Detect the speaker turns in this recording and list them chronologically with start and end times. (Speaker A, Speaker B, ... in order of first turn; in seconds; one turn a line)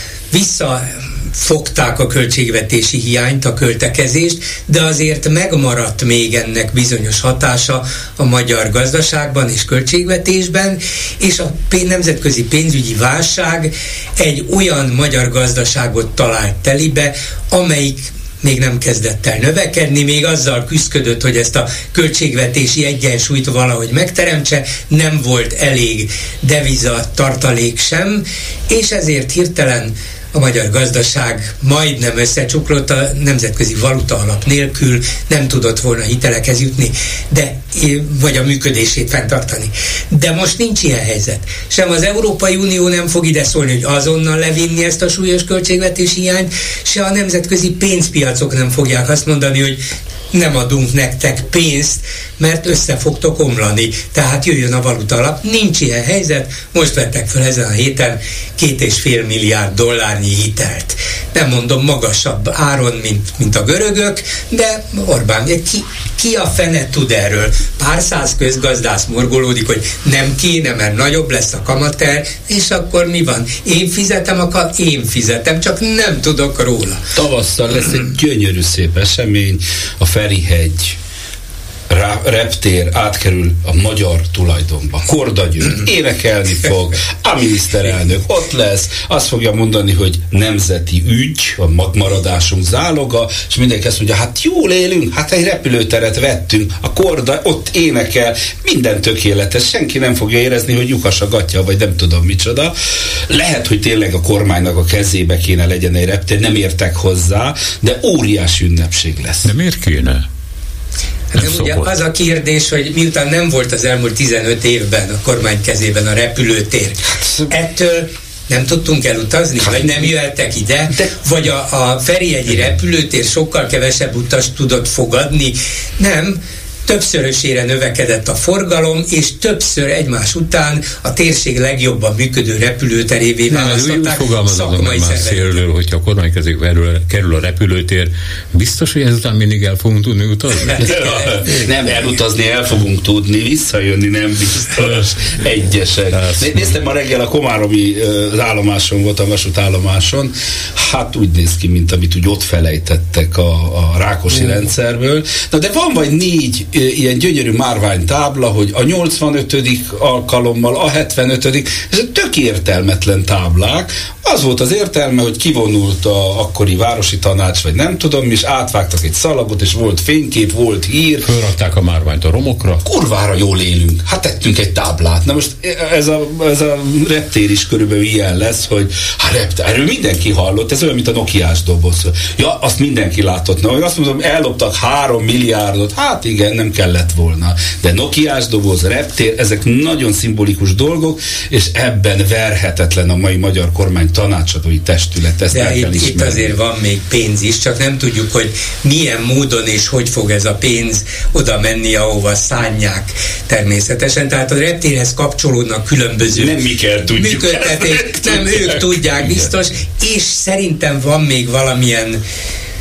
Speaker A: 0.3-49.8
Speaker A: 50.3-77.0
Speaker B: 77.2-81.0
Speaker B: 81.9-102.7
Speaker B: 103.3-109.5
Speaker C: 109.5-110.2
Speaker A: 111.3-117.0
Speaker C: 111.3-112.0
Speaker B: 117.1-117.5
Speaker A: 117.5-135.6
Speaker B: 119.7-120.0
Speaker C: 133.5-140.9
Speaker A: 140.7-140.9
Speaker B: 140.8-171.3
Speaker C: 146.1-146.7
Speaker C: 171.2-172.8
Speaker B: 172.8-196.6
Speaker A: 195.5-206.6
Speaker B: 206.2-209.5
Speaker A: 207.2-212.2